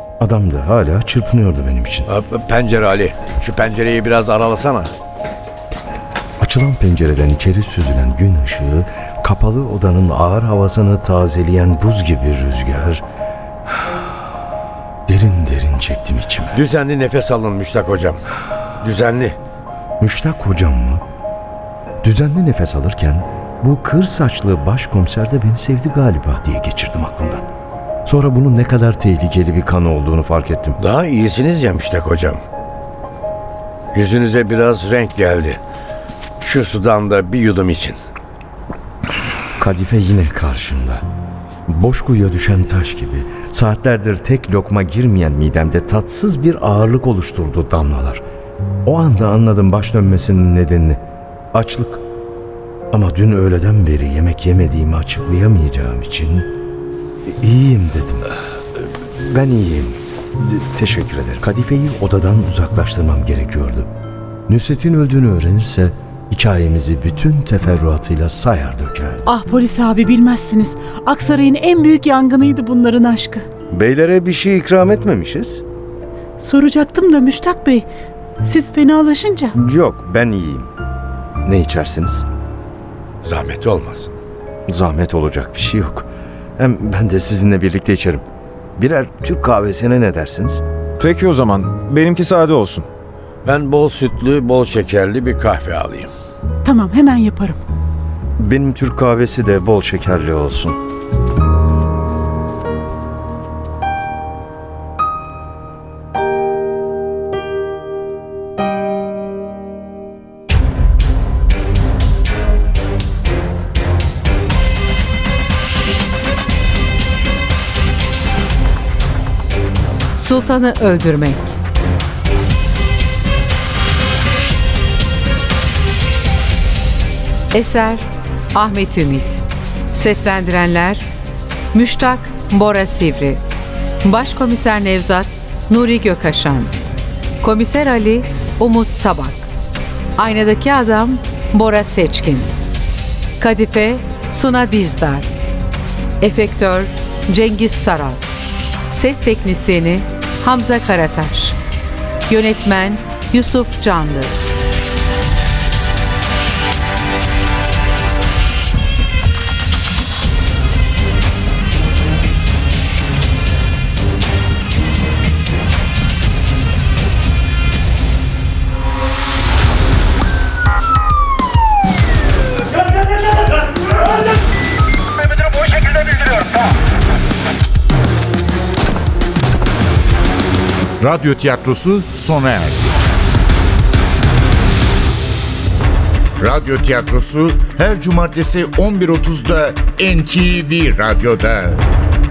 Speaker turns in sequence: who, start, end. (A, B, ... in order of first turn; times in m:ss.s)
0:00.2-0:02.1 A
0:02.1-0:04.9 B
0:06.4-0:13.0 A
0:15.1-0:16.6 A
0:16.5-0:18.2 B
0:18.8-0:19.4 B
0:20.0-0:21.0 A
0:22.0-0:27.5 A
0:28.0-0:30.8 A
0:30.8-0:32.4 B
0:33.9-0:35.6 B
0:36.4-0:38.0 B
0:39.6-0:41.0 A
0:41.7-0:48.2 A
0:48.8-0:51.0 A
0:51.5-0:52.0 A
0:52.9-0:56.5 A
0:57.3-1:03.9 A
1:04.5-1:09.3 A
1:09.3-1:13.4 C
1:13.7-1:15.6 A
1:16.4-1:17.9 C
1:18.4-1:19.5 C
1:19.5-1:20.7 A
1:21.4-1:22.3 A
1:23.2-1:24.1 B
1:24.7-1:28.2 A
1:28.8-1:30.6 A
1:31.0-1:32.8 D
1:33.4-1:36.1 B
1:36.6-1:37.6 C
1:38.4-1:40.8 A
2:00.2-2:01.5 E
2:07.5-2:11.0 E
2:11.7-2:13.4 E
2:14.0-2:16.7 E
2:17.4-2:19.5 E
2:20.2-2:22.5 E
2:23.4-2:25.3 E
2:26.2-2:28.3 E
2:28.9-2:31.6 E
2:32.3-2:34.4 E
3:01.0-3:02.9 F
3:06.4-3:11.8 F
3:06.4-3:07.2 D
3:08.8-3:09.4 D
3:10.3-3:11.3 D